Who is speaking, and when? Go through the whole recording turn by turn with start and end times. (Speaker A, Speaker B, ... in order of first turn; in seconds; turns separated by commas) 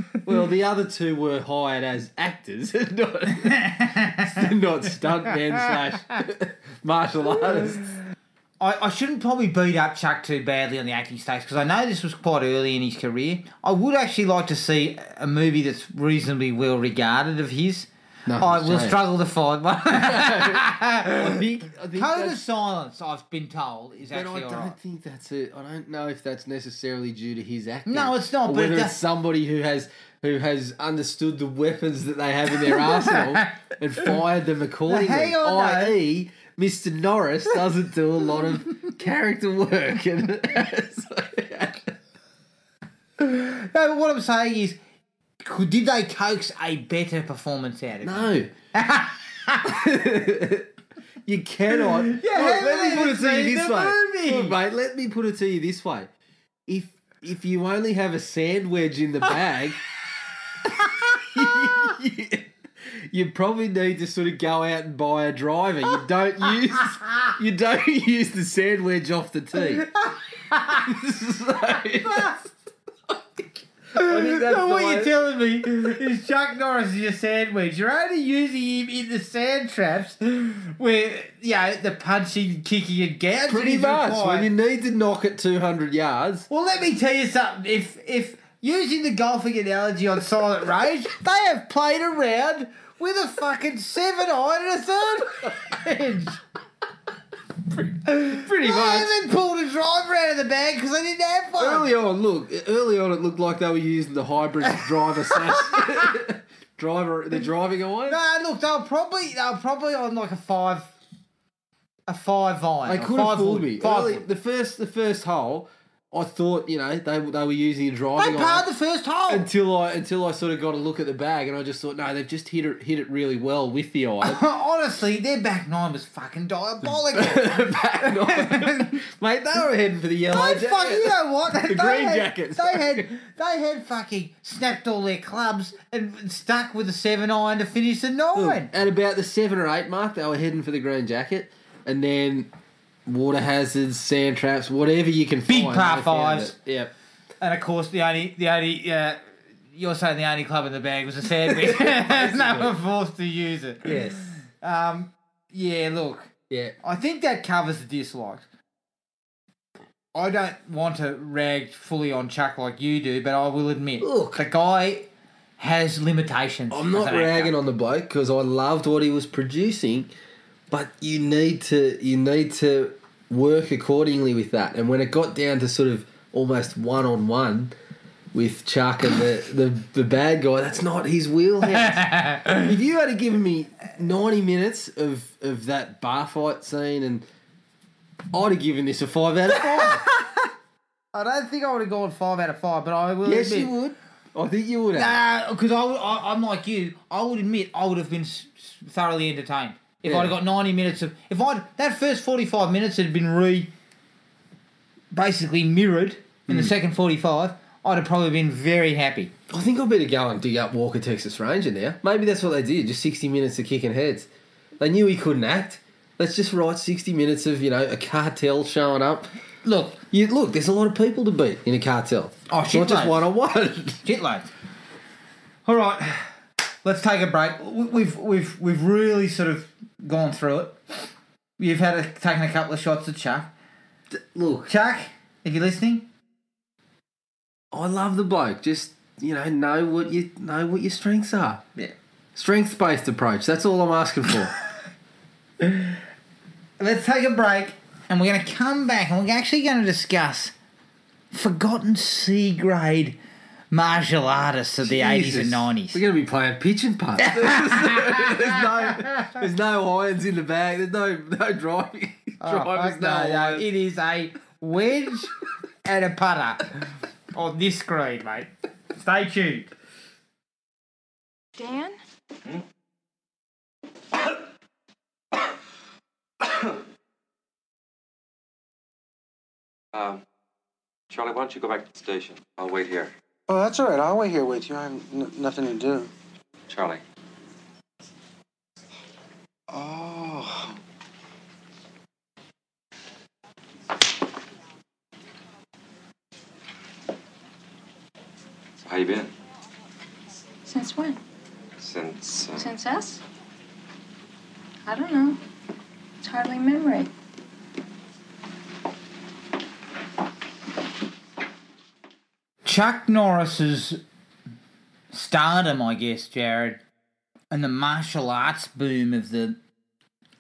Speaker A: 0.2-8.0, Speaker B: 3.4-4.4, Speaker B: 8.6-24.8, Speaker A: 18.3-19.0, Speaker A: 19.9-22.4, Speaker A: 24.1-41.9, Speaker B: 27.9-28.9, Speaker B: 32.6-33.5, Speaker B: 34.9-36.0, Speaker B: 43.2-44.8, Speaker B: 45.4-49.7, Speaker A: 48.0-48.5, Speaker A: 49.6-50.7, Speaker A: 51.2-56.1, Speaker B: 51.7-54.5, Speaker A: 56.7-59.8, Speaker A: 60.6-69.9, Speaker B: 61.1-61.9, Speaker B: 69.5-70.9, Speaker A: 70.7-72.4, Speaker B: 72.0-72.4, Speaker A: 73.1-75.2, Speaker B: 73.9-84.5, Speaker A: 83.5-86.5, Speaker B: 86.5-96.4, Speaker A: 97.7-99.2, Speaker B: 98.0-101.9, Speaker A: 101.5-108.2, Speaker B: 105.4-106.0, Speaker B: 108.1-110.9, Speaker B: 112.1-114.2, Speaker A: 112.9-118.7, Speaker B: 118.2-119.5, Speaker A: 119.3-124.4, Speaker B: 124.2-129.0, Speaker A: 126.9-133.1, Speaker B: 130.3-138.7, Speaker A: 138.3-142.5, Speaker A: 143.1-146.9, Speaker B: 145.5-146.5, Speaker B: 147.4-149.2, Speaker B: 149.7-156.3, Speaker A: 151.4-152.8, Speaker A: 153.8-154.3, Speaker A: 156.5-156.7, Speaker B: 156.8-158.4, Speaker B: 160.1-165.1, Speaker A: 164.0-164.4, Speaker B: 165.6-167.6, Speaker A: 166.7-170.1, Speaker A: 170.7-177.7, Speaker A: 178.3-187.2, Speaker B: 181.8-182.6, Speaker A: 188.3-190.1, Speaker B: 189.7-190.3, Speaker B: 191.1-193.7, Speaker A: 193.2-195.2, Speaker B: 194.9-203.7, Speaker A: 200.0-200.4, Speaker B: 205.1-209.3, Speaker A: 206.5-206.7, Speaker A: 209.5-219.3, Speaker B: 219.6-220.0, Speaker A: 220.1-224.0, Speaker B: 222.5-223.2, Speaker B: 224.0-224.5, Speaker B: 225.7-226.3, Speaker B: 226.8-230.8, Speaker B: 231.6-233.5, Speaker A: 234.1-234.7, Speaker B: 234.7-236.1, Speaker A: 237.7-241.6, Speaker A: 242.3-244.5, Speaker B: 245.6-245.9, Speaker B: 246.8-250.5, Speaker B: 251.3-253.2, Speaker B: 253.7-256.0, Speaker A: 254.8-263.7, Speaker B: 257.2-259.3, Speaker B: 262.4-266.8, Speaker B: 267.3-269.7, Speaker C: 271.6-272.0, Speaker D: 279.9-280.2, Speaker D: 281.1-283.1, Speaker E: 283.5-286.1, Speaker D: 286.7-287.0, Speaker E: 289.7-290.7, Speaker D: 298.8-299.3, Speaker C: 300.6-301.2, Speaker D: 301.8-302.7, Speaker C: 302.6-303.2, Speaker C: 304.9-305.4, Speaker C: 306.2-307.1, Speaker B: 312.6-314.0, Speaker B: 315.1-316.8, Speaker B: 317.5-319.6